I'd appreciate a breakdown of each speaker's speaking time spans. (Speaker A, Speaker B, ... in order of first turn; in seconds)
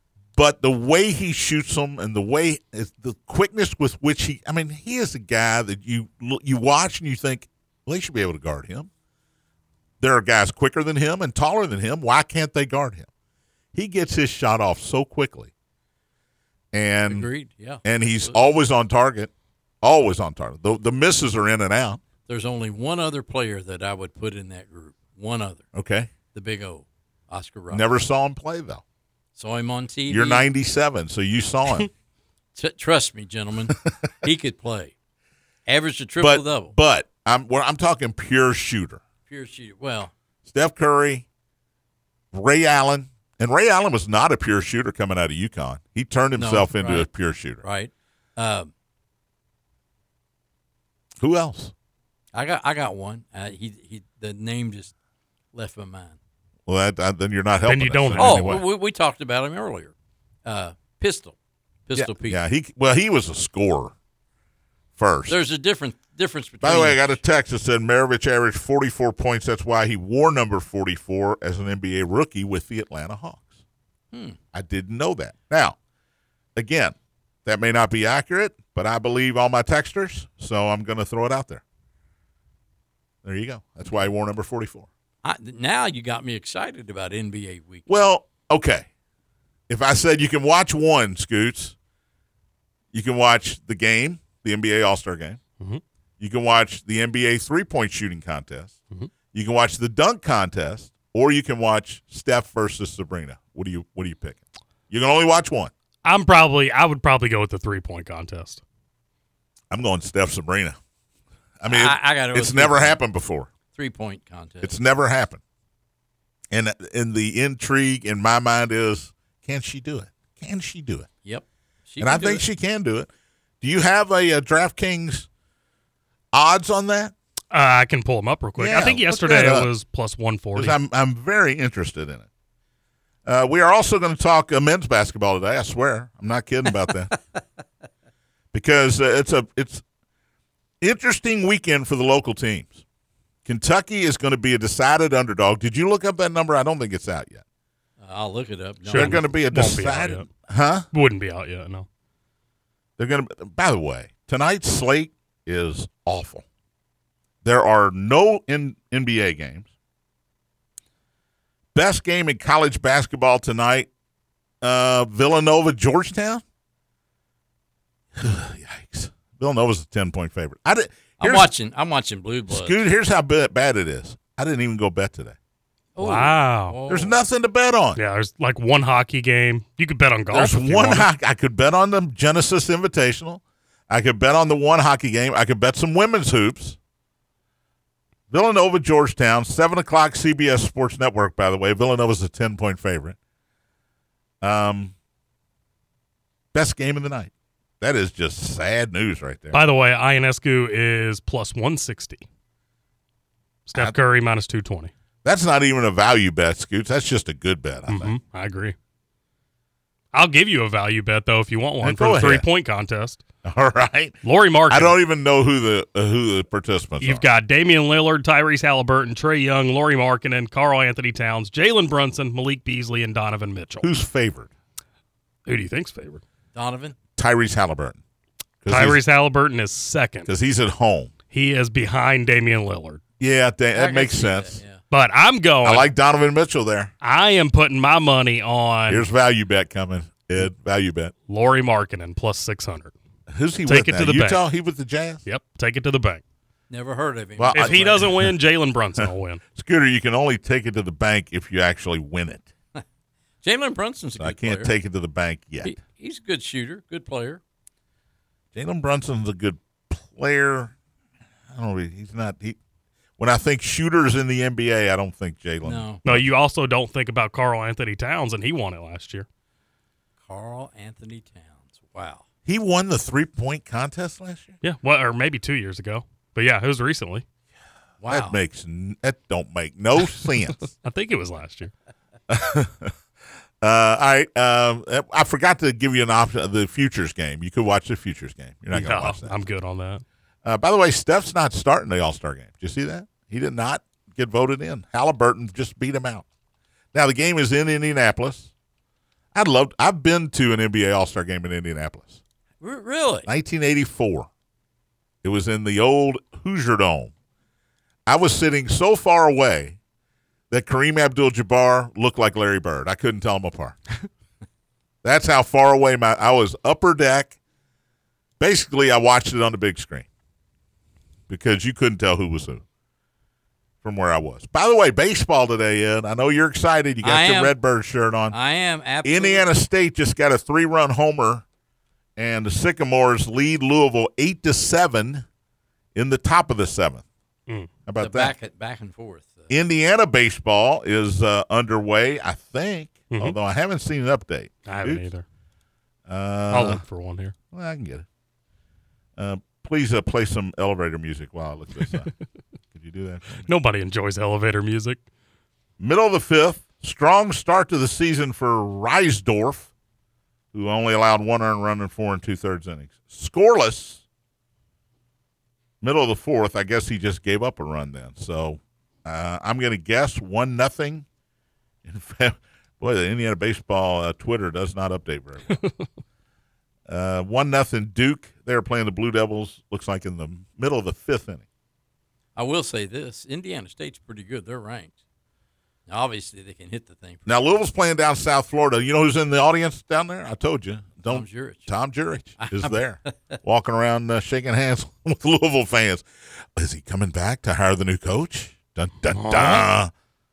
Speaker A: 0.4-8.9, 10.0-13.1, 13.7-15.5, 16.7-17.3, 17.8-19.3, 19.8-22.0, 25.7-26.1, 27.7-28.8, 30.1-31.9, 36.2-39.0, 40.5-41.2, 42.3-47.6, 51.2-51.7, 56.7-58.6, 61.9-63.9, 65.0-65.3, 66.6-73.5, 74.5-75.8, 76.5-81.6, 83.2-84.9, 87.9-88.8, 89.7-91.7, 92.9-95.4, 96.2-98.7, 99.3-105.7, 109.7-110.8, 111.6-113.5, 114.6-115.4, 116.5-121.1, 122.0-123.1, 123.6-125.3, 126.3-127.1, 128.6-129.7, 130.5-132.3, 133.2-137.1, 138.5-139.8, 140.8-142.8, 143.4-147.4, 148.9-150.8, 153.0-156.4, 157.4-159.7, 161.7-163.9, 164.6-166.4, 168.1-171.5, 172.5-175.3, 176.9-178.0, 180.3-186.8, 188.3-193.2, 194.4-194.9, 196.5-199.6, 205.2-208.1, 211.8-212.4, 213.4-214.2, 214.7-217.2, 223.8-224.5, 227.2-228.0, 228.6-229.0, 230.3-231.1, 233.2-234.6, 235.6-236.9, 238.9-241.1, 243.3-245.2, 247.4-248.3, 249.0-252.5, 254.2-255.7, 258.5-260.7, 261.5-262.6, 263.2-266.3, 272.4-274.6, 278.1-280.7, 282.3-282.9, 283.6-289.3, 290.4-296.2, 296.9-298.5, 299.3-302.2, 303.3-304.3, 305.2-307.1, 308.1-309.8, 310.5-313.8, 315.0-317.3, 318.4-320.1, 321.3-322.6, 323.8-328.3, 329.0-331.4, 332.2-335.2, 335.9-337.0, 337.9-338.3, 339.5-345.0, 346.1-346.8, 347.5-348.1, 349.2-352.1, 352.7-353.5, 355.8-359.7, 360.5-364.0, 365.8-371.1, 371.8-375.6, 376.9-381.4, 387.2-399.9
Speaker B: 17.1-18.4, 22.2-25.6, 26.3-27.9, 29.4-30.5, 32.5-34.9, 35.6-36.7, 39.3-40.1, 46.4-47.1, 47.6-48.7, 52.3-54.9, 55.5-56.2, 58.2-59.9, 60.4-61.4, 61.9-62.4, 65.3-67.2, 74.1-74.4, 85.2-88.0, 111.7-113.0, 113.7-114.8, 121.2-122.4, 148.0-149.3, 171.2-172.8, 175.9-177.2, 226.5-226.9, 233.7-234.8, 246.7-248.1, 253.4-254.7, 255.6-257.4, 265.6-266.0, 270.3-272.2, 278.0-278.4, 302.6-303.3, 327.0-327.6, 328.3-329.5, 338.0-339.5, 382.4-384.9, 385.9-387.3, 391.1-391.7, 392.4-393.4
Speaker C: 57.7-58.6, 106.0-108.6, 127.5-130.8, 148.9-150.3, 150.9-151.8, 176.0-176.8, 177.9-181.1, 199.5-202.2, 203.7-204.9, 207.9-208.7, 210.1-213.2, 214.2-214.9, 217.0-223.9, 225.4-226.2, 228.7-230.3, 231.3-233.0, 234.9-235.9, 237.0-239.1, 241.3-242.9, 243.7-244.4, 245.2-246.2, 247.5-249.4, 266.0-269.2, 274.6-277.2, 280.7-281.7, 288.7-290.0, 343.1-343.4, 344.6-345.2, 346.5-347.3, 353.4-355.0, 399.1-399.7